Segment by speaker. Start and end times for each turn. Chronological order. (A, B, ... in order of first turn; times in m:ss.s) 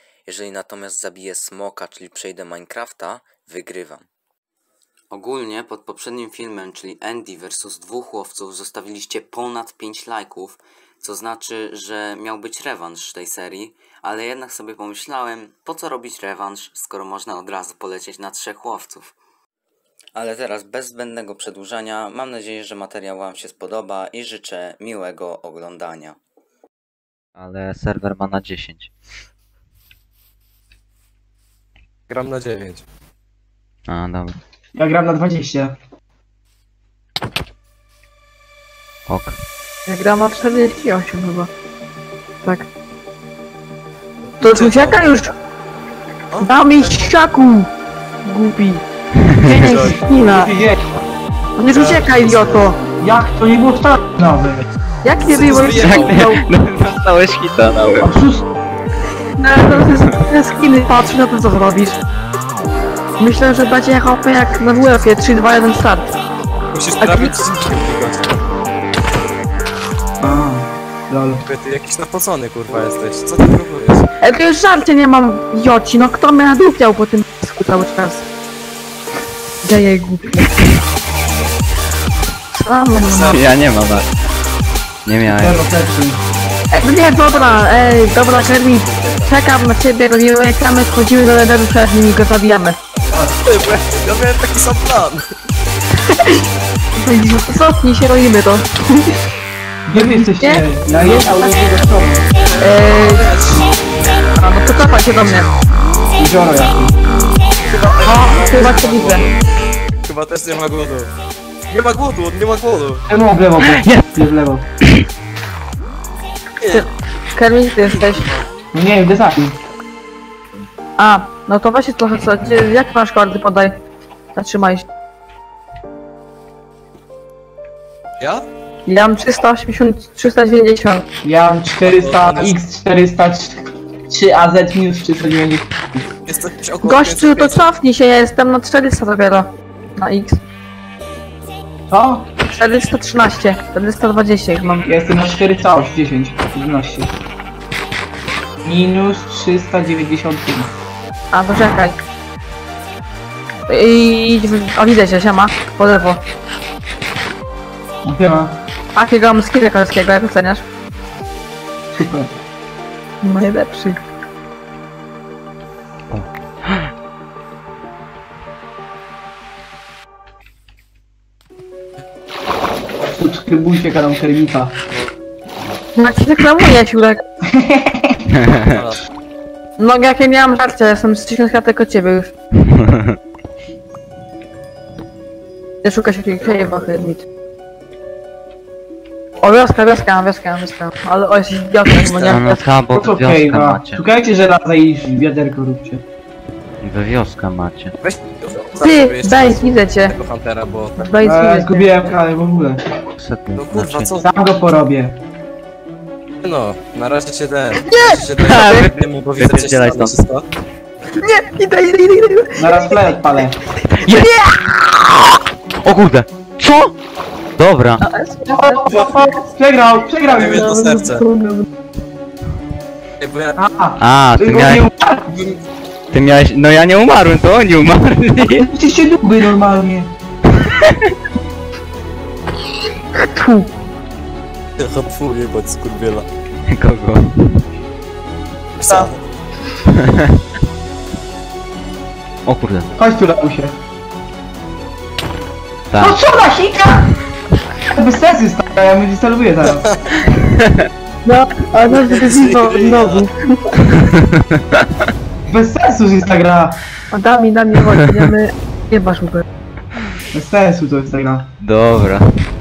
0:00.3-0:04.0 A
0:05.1-0:19.1 A
0:20.2-0:26.2 A
0:27.4-0:28.9 B
0:32.1-0:32.8 C
0:33.9-0:34.4 B
0:34.7-0:35.7 D
0:39.1-0:39.3 B
0:39.9-0:41.5 E
0:44.4-0:45.0 C
0:44.4-0:45.3 E
0:46.3-0:47.0 C
0:46.4-0:47.7 E
0:48.2-0:48.8 E
0:49.2-0:49.8 B
0:49.4-0:50.5 E
0:49.6-0:50.0 C
0:49.8-0:50.8 D
0:51.6-0:52.8 E
0:51.7-0:52.6 C
0:53.0-0:54.7 D
0:55.0-0:56.4 E
0:55.2-0:56.2 C
0:55.8-0:58.1 B
0:58.0-0:58.4 D
0:59.4-1:02.0 E
0:59.6-1:00.1 B
1:03.2-1:06.0 E
1:06.7-1:08.4 C
1:07.0-1:07.4 E
1:10.2-1:11.4 D
1:11.4-1:14.1 C
1:14.2-1:18.2 E
1:19.6-1:20.5 E
1:22.5-1:23.4 E
1:22.9-1:23.4 C
1:23.3-1:24.1 B
1:25.0-1:25.6 B
1:25.2-1:26.2 D
1:26.7-1:32.8 E
1:27.3-1:29.3 C
1:33.2-1:35.2 C
1:36.0-1:36.4 E
1:37.0-1:39.2 E
1:39.9-1:42.2 D
1:40.0-1:41.6 E
1:42.5-1:43.8 C
1:42.6-1:43.3 E
1:44.4-1:45.5 E
1:46.2-1:46.9 D
1:47.7-1:49.4 C
1:48.0-1:49.2 E
1:50.0-1:51.1 C
1:51.7-1:53.0 C
1:53.1-1:54.6 D
1:53.6-1:54.1 B
1:56.7-1:58.3 E
1:57.9-1:58.4 C
1:58.7-1:59.6 D
2:01.0-2:03.7 E
2:04.3-2:04.8 E
2:08.2-2:08.4 C
2:08.8-2:11.0 E
2:11.2-2:16.1 D
2:11.8-2:12.6 C
2:16.3-2:17.6 C
2:16.8-2:20.4 E
2:21.9-2:22.2 D
2:22.4-2:24.9 E
2:24.9-2:27.1 D
2:28.6-2:30.7 D
2:31.3-2:32.0 E
2:33.7-2:36.2 E
2:38.0-2:38.5 D
2:38.9-2:40.6 E
2:41.9-2:42.3 D
2:43.2-2:44.0 E
2:46.1-2:46.9 B
2:53.1-2:54.7 D
2:56.0-2:57.2 E
2:57.5-2:58.2 D
2:58.3-2:58.8 B
2:58.6-2:59.0 C
2:59.8-3:02.3 E
3:02.6-3:03.2 B
3:05.8-3:07.2 E
3:09.4-3:12.6 E
3:11.9-3:12.4 C
3:12.3-3:14.0 B
3:12.9-3:16.0 D
3:16.8-3:17.9 B
3:18.0-3:21.0 C
3:18.8-3:20.1 E
3:21.0-3:21.9 E
3:21.2-3:22.8 D
3:23.2-3:24.2 B
3:23.6-3:24.3 C
3:24.2-3:25.2 D
3:26.4-3:30.4 C
3:27.8-3:28.9 E
3:28.4-3:30.2 B
3:31.2-3:33.2 E
3:32.6-3:33.6 D
3:33.9-3:34.5 E
3:34.0-3:36.9 B
3:37.6-3:38.0 B
3:38.0-3:39.4 E
3:38.5-3:40.7 D
3:40.3-3:41.2 C
3:40.4-3:41.6 E
3:43.2-3:43.6 C
3:43.6-3:45.3 D
3:44.0-3:44.9 B
3:46.1-3:48.7 B
3:48.4-3:50.1 D
3:50.6-3:51.1 B
3:53.2-3:53.7 E
3:54.8-3:56.2 C
3:56.7-3:57.6 B
3:58.8-3:59.1 C
3:59.9-4:00.4 B
4:02.4-4:02.9 B
4:03.0-4:03.7 D
4:05.9-4:06.2 B
4:06.0-4:07.1 D
4:07.9-4:09.9 D
4:09.6-4:10.0 C
4:10.3-4:10.9 B
4:11.2-4:13.9 E
4:11.8-4:13.2 C
4:14.1-4:15.0 B
4:15.5-4:16.8 D
4:17.1-4:19.4 E
4:20.3-4:21.5 D
4:21.6-4:22.3 B